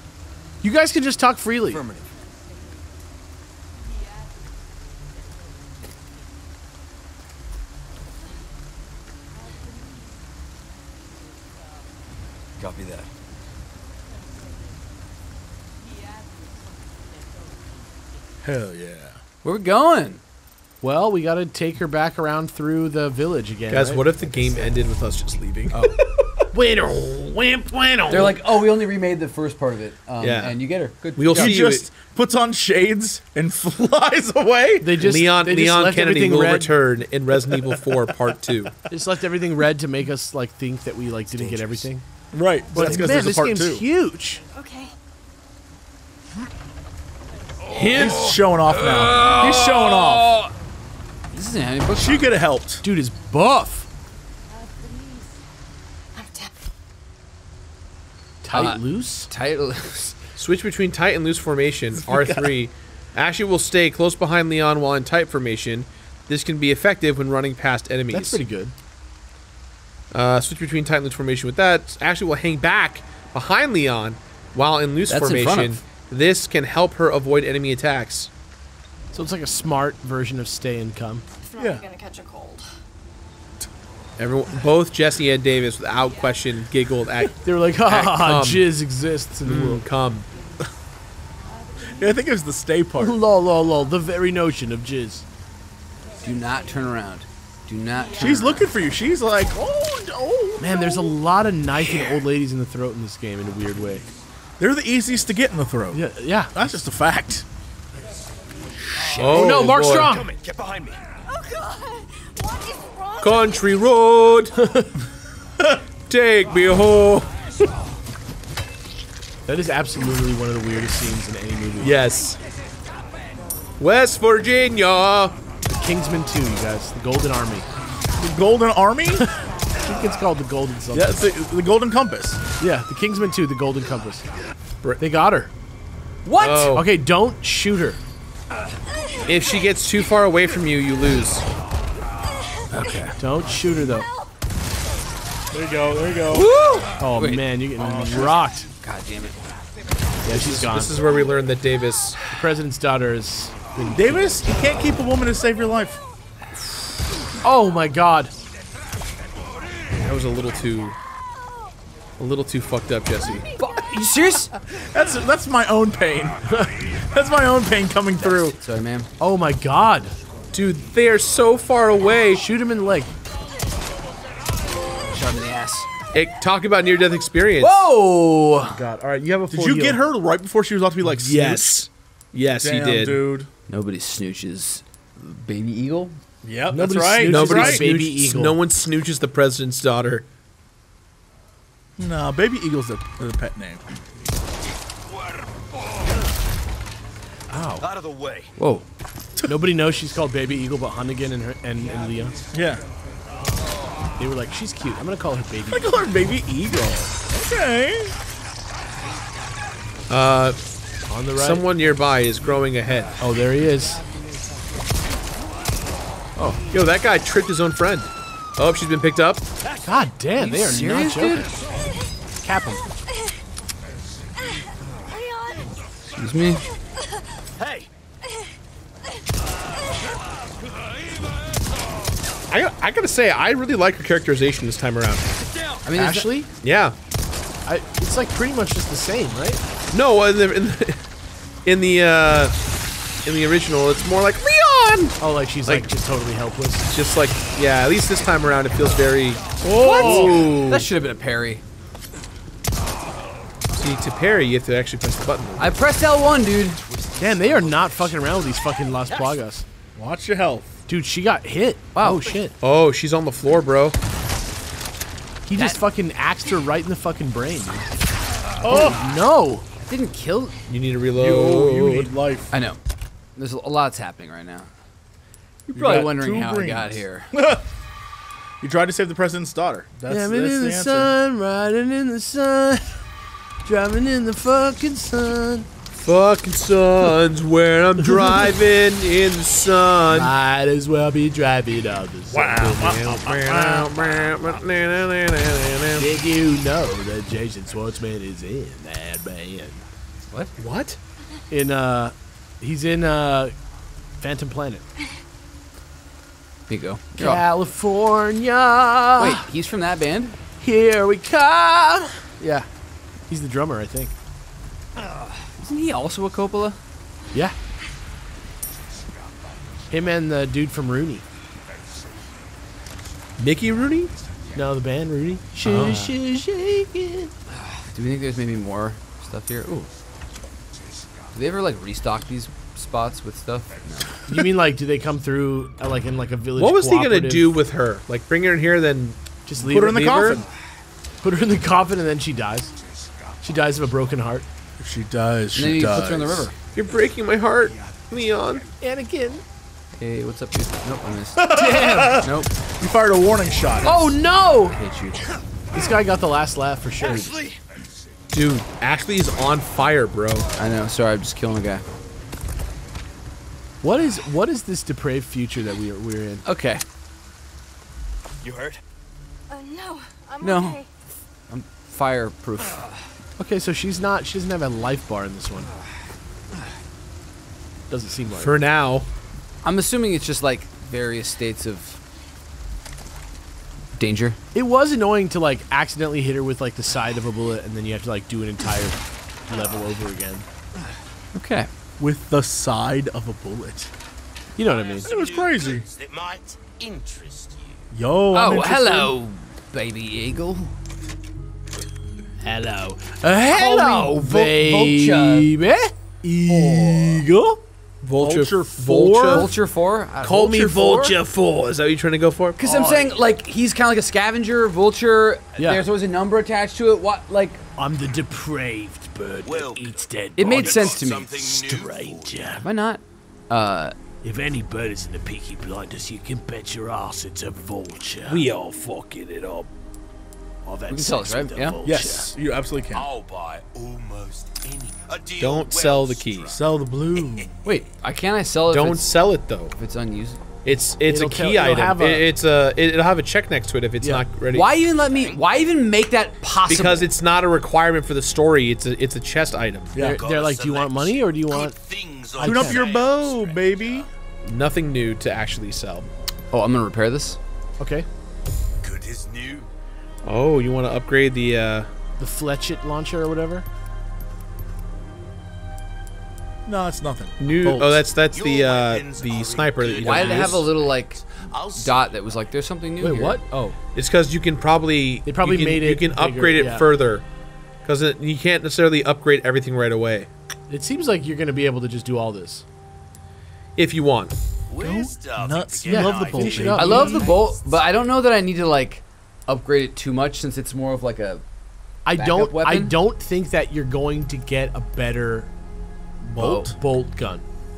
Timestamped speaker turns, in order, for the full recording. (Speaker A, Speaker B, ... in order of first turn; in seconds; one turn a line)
Speaker A: 0.6-1.8
Speaker B: 1.7-2.2
Speaker B: 12.6-13.1
Speaker C: 18.4-19.2
Speaker D: 19.4-20.2
Speaker A: 20.8-24.1
Speaker E: 23.7-26.1
Speaker A: 26.5-28.4
Speaker D: 28.1-31.7
Speaker E: 30.2-30.6
Speaker E: 31.1-31.9
Speaker C: 31.3-35.0
Speaker A: 34.8-36.7
Speaker E: 35.0-38.7
Speaker A: 38.9-42.0
Speaker B: 41.3-41.8
Speaker C: 42.3-43.8
Speaker A: 42.7-44.4
Speaker D: 42.8-43.3
Speaker F: 44.5-44.9
Speaker D: 47.7-50.5
Speaker C: 47.9-50.3
Speaker D: 51.3-52.4
Speaker C: 51.9-52.8
Speaker A: 52.8-53.9
Speaker F: 54.8-55.2
Speaker F: 56.1-56.5
Speaker A: 58.4-59.3
Speaker D: 58.5-60.2
Speaker E: 60.4-68.4
Speaker C: 62.0-62.5
Speaker A: 68.1-68.7
Speaker E: 70.1-78.3
Speaker D: 75.1-75.8
Speaker A: 79.1-81.2
Speaker F: 81.5-82.7
Speaker C: 81.6-81.8
Speaker E: 84.2-88.7
Speaker A: 87.4-89.8
Speaker E: 89.4-90.3
Speaker C: 91.9-93.2
Speaker A: 93.0-95.2
Speaker D: 96.2-98.7
Speaker C: 98.2-101.1
Speaker A: 100.6-104.0
Speaker C: 104.6-107.5
Speaker A: 105.9-106.5
Speaker B: 109.0-111.0
Speaker E: 109.1-110.1
Speaker A: 109.3-110.3
Speaker F: 111.3-113.6
Speaker E: 113.2-114.5
Speaker A: 114.6-114.9
Speaker E: 116.1-117.5
Speaker A: 119.5-122.0
Speaker E: 121.8-122.4
Speaker E: 123.8-125.3
Speaker A: 125.7-127.7
Speaker C: 128.2-129.3
Speaker A: 129.8-131.2
Speaker C: 130.9-132.4
Speaker A: 132.6-134.2
Speaker A: 135.0-135.5
Speaker D: 136.2-136.8
Speaker E: 136.4-136.8
Speaker A: 136.7-138.0
Speaker E: 139.2-141.4
Speaker D: 142.7-143.1
Speaker A: 143.2-144.1
Speaker C: 145.5-146.5
Speaker D: 146.3-149.6
Speaker A: 147.0-148.7
Speaker C: 147.8-148.4
Speaker A: 150.2-151.1
Speaker E: 150.3-152.2
Speaker A: 152.3-154.5
Speaker C: 153.9-156.0
Speaker A: 157.4-158.3
Speaker E: 159.9-160.9
Speaker E: 162.2-163.5
Speaker D: 163.6-164.5
Speaker C: 164.7-168.6
Speaker D: 168.2-169.1
Speaker A: 169.2-170.1
Speaker E: 170.5-172.4
Speaker A: 172.3-173.1
Speaker D: 175.1-175.9
Speaker E: 176.1-177.9
Speaker D: 177.6-178.8
Speaker A: 178.6-180.0
Speaker C: 179.5-181.8
Speaker E: 181.0-183.2
Speaker C: 182.6-183.5
Speaker D: 183.7-186.2
Speaker C: 186.4-187.8
Speaker A: 186.7-188.6
Speaker E: 187.3-190.2
Speaker C: 192.0-193.8
Speaker A: 197.5-197.8
Speaker B: 197.8-198.5
Speaker D: 198.6-198.8
Speaker C: 199.4-199.6
Speaker A: 199.5-202.3
Speaker C: 202.5-202.8
Speaker A: 204.2-206.1
Speaker C: 205.7-208.1
Speaker E: 210.1-210.6
Speaker A: 211.1-211.7
Speaker E: 211.3-213.2
Speaker A: 213.2-214.0
Speaker E: 216.7-219.4
Speaker A: 219.8-221.5
Speaker D: 220.4-221.6
Speaker A: 222.4-222.8
Speaker F: 225.1-225.7
Speaker D: 226.2-226.6
Speaker B: 227.6-227.9
Speaker E: 232.5-235.3
Speaker B: 235.4-235.8
Speaker D: 235.8-236.3
Speaker A: 235.9-236.5
Speaker E: 236.6-236.9
Speaker A: 237.7-239.6
Speaker E: 239.9-241.1
Speaker E: 241.6-242.5
Speaker E: 243.2-245.2
Speaker A: 245.2-246.9
Speaker E: 246.9-250.9
Speaker C: 249.7-250.4
Speaker D: 249.8-251.6
Speaker E: 253.7-255.8
Speaker D: 255.6-256.8
Speaker B: 256.7-258.4
Speaker A: 257.2-259.6
Speaker C: 259.9-260.8
Speaker A: 260.9-262.6
Speaker D: 261.9-262.4
Speaker E: 262.6-263.9
Speaker A: 265.5-267.9
Speaker C: 268.6-269.0
Speaker D: 268.7-268.9
Speaker A: 268.7-269.6
Speaker D: 269.8-270.6
Speaker E: 270.7-272.1
Speaker C: 271.2-272.5
Speaker D: 272.5-272.8
Speaker D: 273.4-274.7
Speaker C: 275.7-277.6
Speaker D: 275.7-277.3
Speaker C: 278.6-281.1
Speaker A: 280.1-283.0
Speaker A: 283.6-285.7
Speaker E: 285.9-290.3
Speaker A: 290.1-293.0
Speaker C: 292.3-294.0
Speaker E: 292.6-296.1
Speaker A: 296.0-299.8
Speaker E: 300.6-301.0
Speaker A: 301.5-303.6
Speaker A: 304.2-304.8
Speaker D: 306.7-307.4
Speaker A: 307.2-309.4
Speaker D: 309.2-310.4
Speaker A: 310.6-312.7
Speaker A: 313.3-314.1
Speaker D: 315.4-316.8
Speaker A: 319.9-321.2
Speaker E: 323.4-324.1
Speaker A: 324.5-327.3
Speaker E: 325.6-326.0
Speaker D: 325.6-326.1
Speaker D: 327.5-329.9
Speaker D: 331.3-334.2
Speaker A: 334.3-337.5
Speaker E: 336.6-339.2
Speaker A: 339.5-340.2
Speaker C: 339.6-340.4
Speaker E: 339.7-340.4
Speaker A: 341.2-342.7
Speaker B: 342.9-343.4
Speaker A: 343.4-344.4
Speaker C: 344.8-346.5
Speaker D: 345.5-346.5
Speaker E: 346.7-348.6
Speaker A: 348.8-349.4
Speaker D: 350.0-352.5
Speaker C: 351.4-354.1
Speaker A: 351.5-352.2
Speaker D: 353.8-355.2
Speaker A: 353.8-354.8
Speaker A: 355.7-357.4
Speaker B: 357.1-357.6
Speaker E: 358.3-360.5
Speaker D: 360.6-361.8
Speaker A: 363.8-366.4
Speaker D: 366.4-366.8
Speaker B: 368.4-368.8
Speaker F: 369.5-370.9
Speaker D: 370.4-370.8
Speaker D: 371.5-372.9
Speaker A: 373.4-375.7
Speaker A: 377.9-378.5
Speaker E: 378.4-379.1
Speaker D: 379.6-382.0
Speaker D: 384.0-384.4
Speaker A: 384.5-390.4
Speaker D: 391.3-391.7
Speaker C: 392.0-393.9
Speaker A: 394.6-395.1
Speaker B: 394.7-397.9
Speaker C: 395.1-395.9
Speaker C: 397.9-399.1
Speaker D: 398.3-400.7
Speaker A: 402.4-405.9
Speaker D: 403.5-405.5
Speaker C: 406.2-407.6
Speaker E: 408.0-409.5
Speaker C: 408.1-409.5
Speaker D: 409.3-411.2
Speaker E: 410.2-412.6
Speaker D: 412.6-417.6
Speaker A: 412.6-413.1
Speaker A: 415.6-415.9
Speaker A: 417.8-422.7
Speaker B: 419.4-422.5
Speaker D: 420.4-421.4
Speaker D: 422.6-423.9
Speaker A: 424.2-429.7
Speaker E: 428.3-428.6
Speaker A: 430.6-432.3
Speaker D: 430.9-431.8
Speaker C: 431.8-433.1
Speaker B: 432.9-436.7
Speaker E: 435.4-436.6
Speaker C: 436.5-437.5
Speaker B: 437.2-437.6
Speaker D: 437.6-439.1
Speaker E: 438.7-439.7
Speaker D: 439.7-440.4
Speaker E: 440.6-444.7
Speaker A: 441.0-441.9
Speaker C: 441.5-442.2
Speaker D: 444.5-447.1
Speaker B: 444.8-445.4
Speaker E: 446.6-449.9
Speaker C: 449.9-450.2
Speaker A: 450.0-451.7
Speaker B: 450.1-454.1
Speaker A: 452.3-452.9
Speaker C: 452.4-454.1
Speaker E: 454.4-456.1
Speaker D: 456.5-457.4
Speaker A: 457.8-458.1
Speaker B: 458.8-459.7
Speaker E: 460.2-461.9
Speaker A: 462.2-463.6
Speaker C: 466.6-468.0
Speaker E: 467.4-470.7
Speaker B: 468.3-472.6
Speaker D: 470.0-473.4
Speaker A: 473.0-473.8
Speaker E: 473.9-477.2
Speaker A: 475.2-476.9
Speaker E: 477.8-480.3
Speaker A: 480.7-482.6
Speaker E: 483.8-484.3
Speaker B: 484.7-487.7
Speaker C: 484.8-487.3
Speaker A: 485.8-487.2
Speaker D: 486.8-491.4
Speaker A: 492.1-495.5
Speaker D: 492.1-493.0
Speaker C: 496.2-496.8
Speaker A: 496.4-497.4